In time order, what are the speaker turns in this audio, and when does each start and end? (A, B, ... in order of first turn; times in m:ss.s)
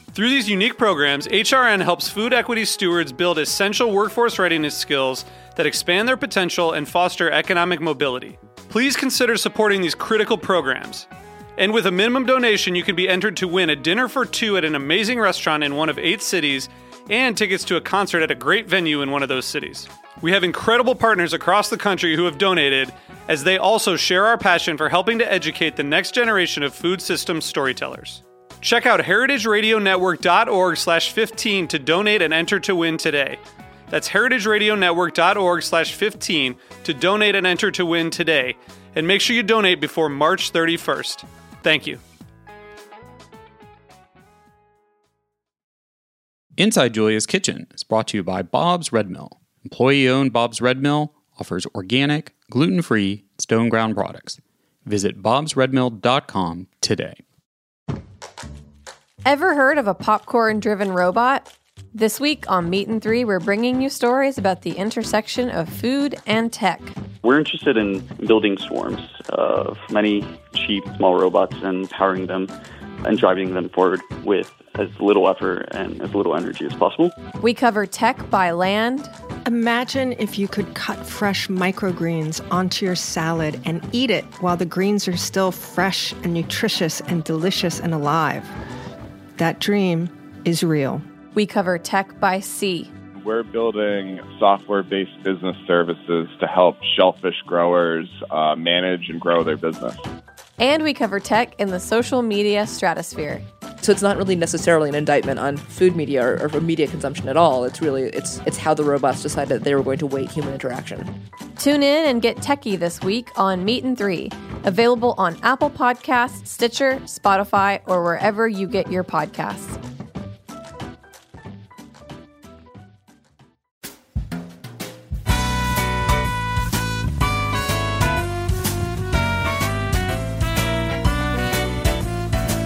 0:00.1-0:42.0 A
0:46.6-0:57.2 B
0:59.2-1:07.0 C
1:07.2-1:12.5 D
1:13.0-1:17.1 D
1:17.4-1:19.1 C
1:19.5-1:28.5 E
1:29.4-1:31.1 E
1:31.3-1:32.9 C
1:33.2-1:40.0 F
1:40.6-1:43.4 C
1:43.8-1:51.1 G
1:51.6-1:59.8 C